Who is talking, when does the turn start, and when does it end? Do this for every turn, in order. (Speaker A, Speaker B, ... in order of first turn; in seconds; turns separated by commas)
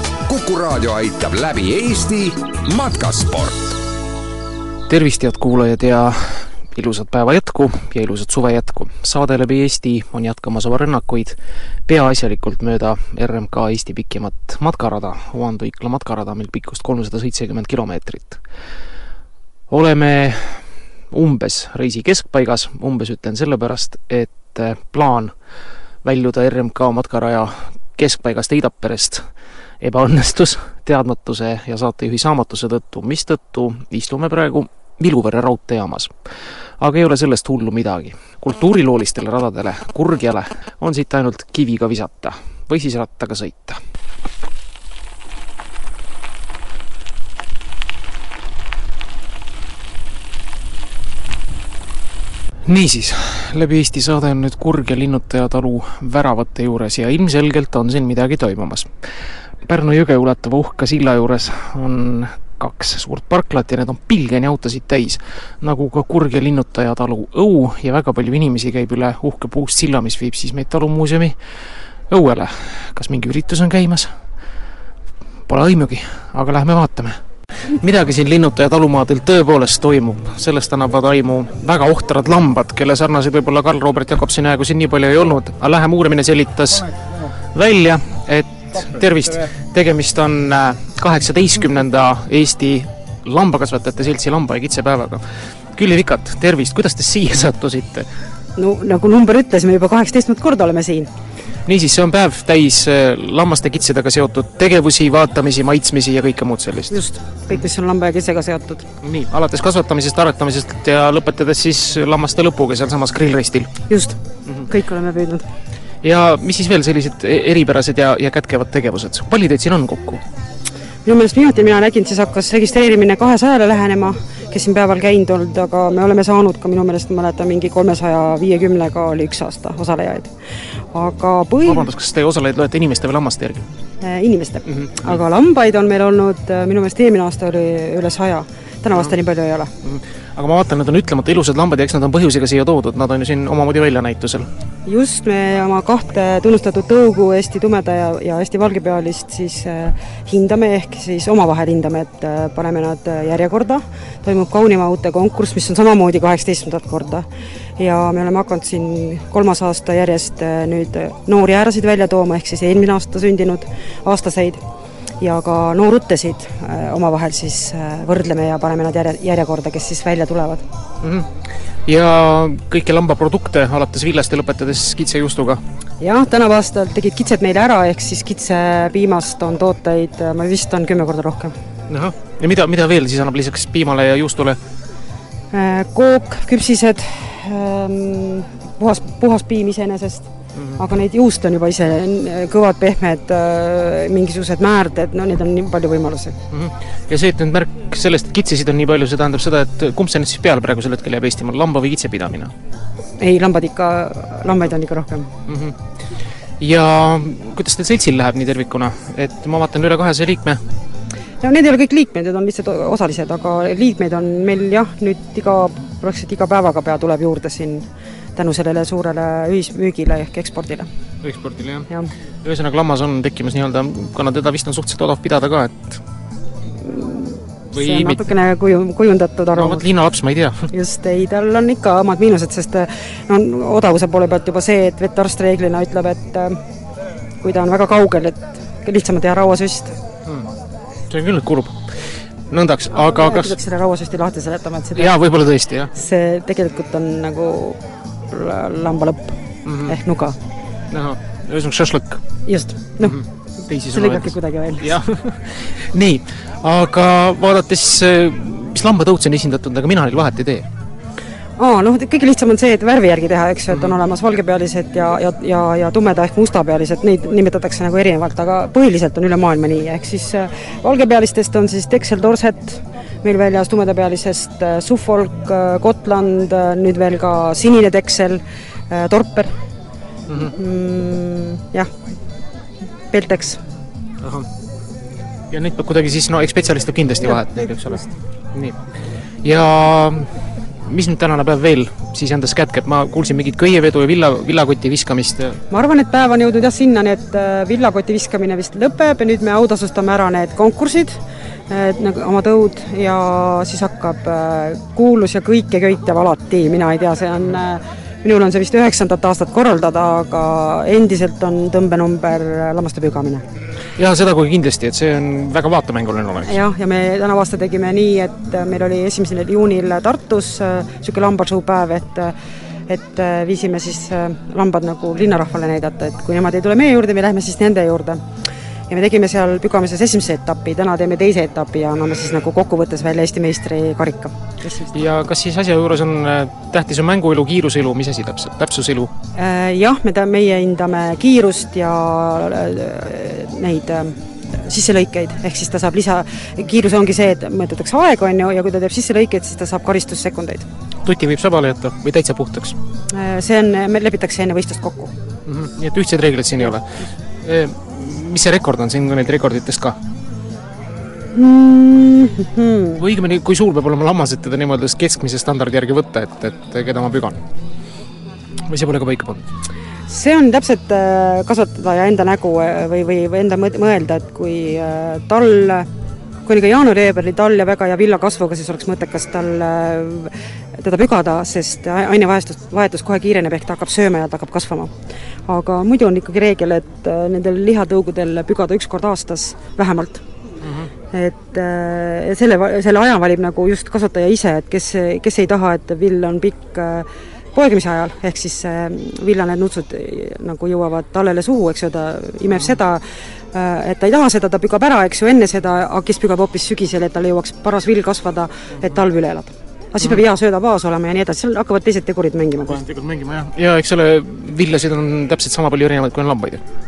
Speaker A: 0.3-3.8, Speaker B: 4.9-18.4, Speaker B: 19.7-25.3, Speaker B: 26.0-43.8, Speaker B: 52.6-74.2, Speaker B: 75.5-87.0, Speaker B: 87.5-98.1, Speaker C: 98.6-101.1, Speaker B: 101.7-107.0, Speaker C: 106.9-108.9, Speaker B: 109.0-113.8, Speaker C: 113.9-115.5, Speaker B: 116.0-120.2, Speaker C: 121.0-131.9, Speaker B: 131.7-133.7, Speaker C: 134.0-139.7, Speaker B: 134.7-135.2, Speaker B: 139.8-144.5, Speaker C: 144.8-164.6, Speaker C: 165.2-170.6, Speaker B: 171.0-175.6, Speaker C: 176.0-181.5, Speaker B: 181.9-184.6, Speaker C: 185.5-196.3, Speaker B: 190.5-190.8, Speaker B: 196.5-202.5, Speaker C: 203.2-205.3, Speaker B: 205.5-205.8, Speaker B: 206.6-210.6, Speaker C: 211.4-220.9, Speaker B: 221.2-221.8, Speaker B: 222.4-226.0, Speaker C: 226.8-229.9, Speaker B: 227.8-228.2, Speaker B: 229.6-230.7, Speaker C: 230.7-236.6, Speaker C: 237.4-240.0, Speaker B: 241.1-243.5, Speaker C: 242.9-245.1, Speaker B: 244.9-245.9, Speaker C: 245.9-250.3, Speaker B: 249.7-250.0, Speaker B: 250.9-252.2, Speaker C: 252.5-253.2, Speaker B: 253.0-260.7, Speaker C: 253.9-254.9, Speaker C: 261.6-279.5, Speaker B: 263.7-263.9, Speaker B: 280.3-280.6, Speaker C: 280.5-281.9, Speaker C: 283.1-283.6, Speaker B: 284.2-284.5, Speaker B: 285.5-288.8, Speaker B: 289.4-295.6, Speaker C: 295.7-313.4, Speaker B: 314.0-316.6, Speaker C: 316.4-322.3, Speaker C: 322.9-328.3, Speaker C: 328.9-334.9, Speaker B: 334.9-339.1, Speaker C: 339.3-350.7, Speaker B: 351.0-352.8, Speaker C: 353.1-355.1, Speaker B: 355.5-359.9, Speaker C: 361.3-363.0, Speaker B: 363.0-367.4, Speaker B: 368.7-369.4, Speaker C: 370.1-375.9, Speaker C: 376.4-384.9, Speaker C: 385.4-390.2, Speaker B: 390.6-390.9, Speaker C: 391.1-412.9, Speaker B: 412.8-416.6